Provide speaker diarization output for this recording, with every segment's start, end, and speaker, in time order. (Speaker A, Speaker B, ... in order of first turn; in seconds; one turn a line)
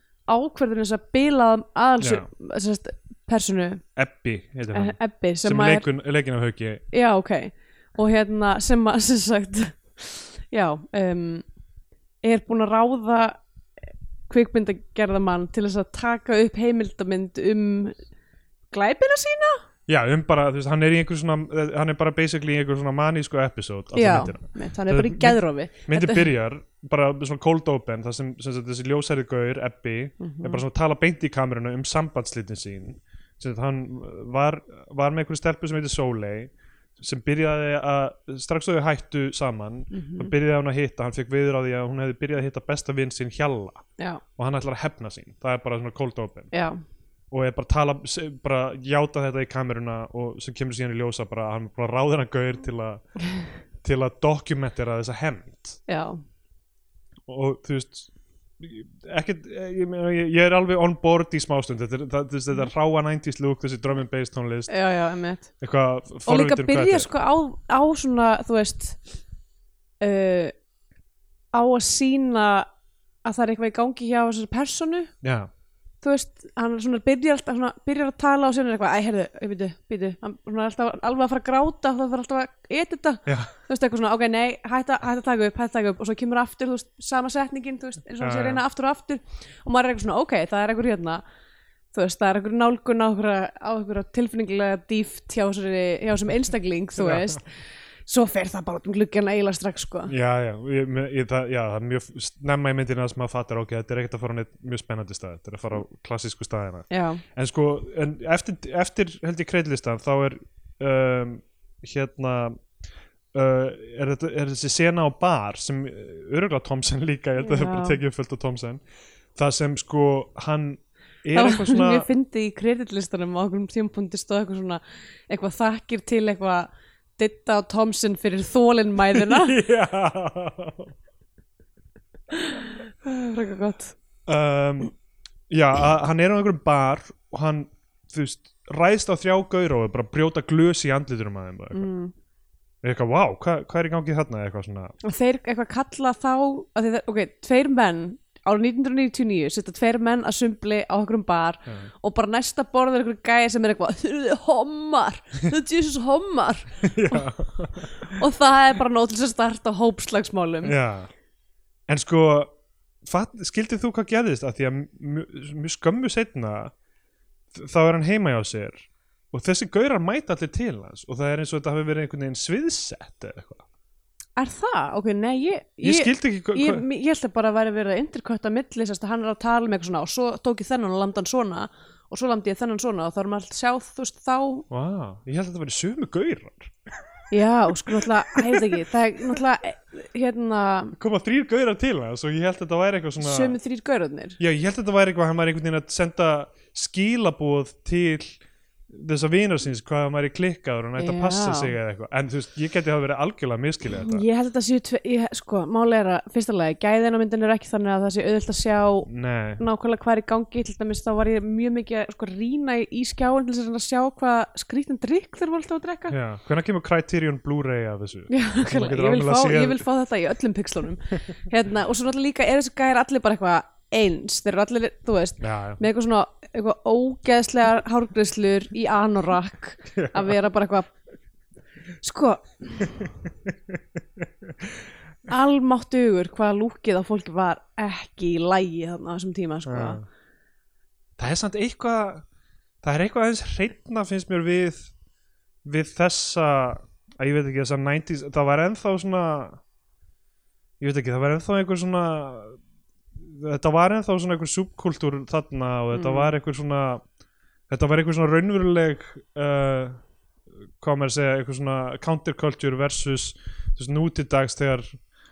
Speaker A: 0.3-3.8
Speaker B: 2.0-2.3
Speaker B: 4.0-6.8
Speaker A: 4.7-5.9
Speaker A: 6.9-11.4
Speaker A: 12.2-13.4
Speaker A: 14.3-17.9
Speaker A: 18.7-19.6
Speaker B: 19.9-43.9
Speaker A: 23.9-26.3
Speaker A: 30.2-30.6
Speaker A: 39.9-40.3
Speaker B: 44.4-46.5
Speaker A: 46.5-46.8
Speaker B: 47.3-53.1
Speaker B: 53.8-55.8
Speaker A: 55.9-56.2
Speaker B: 57.3-64.7
Speaker A: 64.7-65.5
Speaker B: 65.6-67.1
Speaker A: 66.3-69.0
Speaker A: 70.0-70.5
Speaker A: 71.5-72.7
Speaker A: 73.2-75.1
Speaker B: 75.2-75.5
Speaker A: 76.0-91.2
Speaker B: 83.3-83.5
Speaker B: 88.2-88.6
Speaker A: 91.9-97.5
Speaker B: 97.0-97.4
Speaker A: 98.1-100.1
Speaker B: 100.1-112.6
Speaker A: 106.9-107.2
Speaker B: 113.3-118.8
Speaker A: 117.4-118.0
Speaker B: 119.3-122.1
Speaker A: 121.3-129.6
Speaker B: 129.1-130.9
Speaker A: 132.3-133.9
Speaker B: 134.3-134.9
Speaker B: 135.5-141.9
Speaker A: 141.7-142.1
Speaker B: 142.8-144.9
Speaker A: 145.0-157.3
Speaker B: 156.8-158.2
Speaker A: 157.9-160.8
Speaker B: 160.6-161.1
Speaker B: 161.9-162.5
Speaker B: 163.1-166.7
Speaker B: 167.5-173.6
Speaker A: 174.4-184.6
Speaker B: 175.8-176.8
Speaker B: 184.7-186.7
Speaker A: 187.3-190.9
Speaker B: 187.8-188.8
Speaker B: 191.0-193.6
Speaker A: 193.2-194.4
Speaker B: 194.4-204.2
Speaker A: 201.0-201.7
Speaker A: 204.0-209.1
Speaker B: 209.1-209.6
Speaker A: 209.6-216.1
Speaker B: 216.1-219.8
Speaker A: 218.3-230.9
Speaker B: 225.4-225.8
Speaker B: 229.9-230.4
Speaker A: 232.0-232.9
Speaker B: 233.0-234.7
Speaker A: 235.3-240.0
Speaker B: 239.6-240.1
Speaker B: 241.2-242.2
Speaker B: 242.8-244.9
Speaker B: 245.6-249.6
Speaker B: 250.8-252.6
Speaker B: 253.2-257.0
Speaker A: 255.9-256.3
Speaker B: 257.7-260.0
Speaker B: 260.8-265.0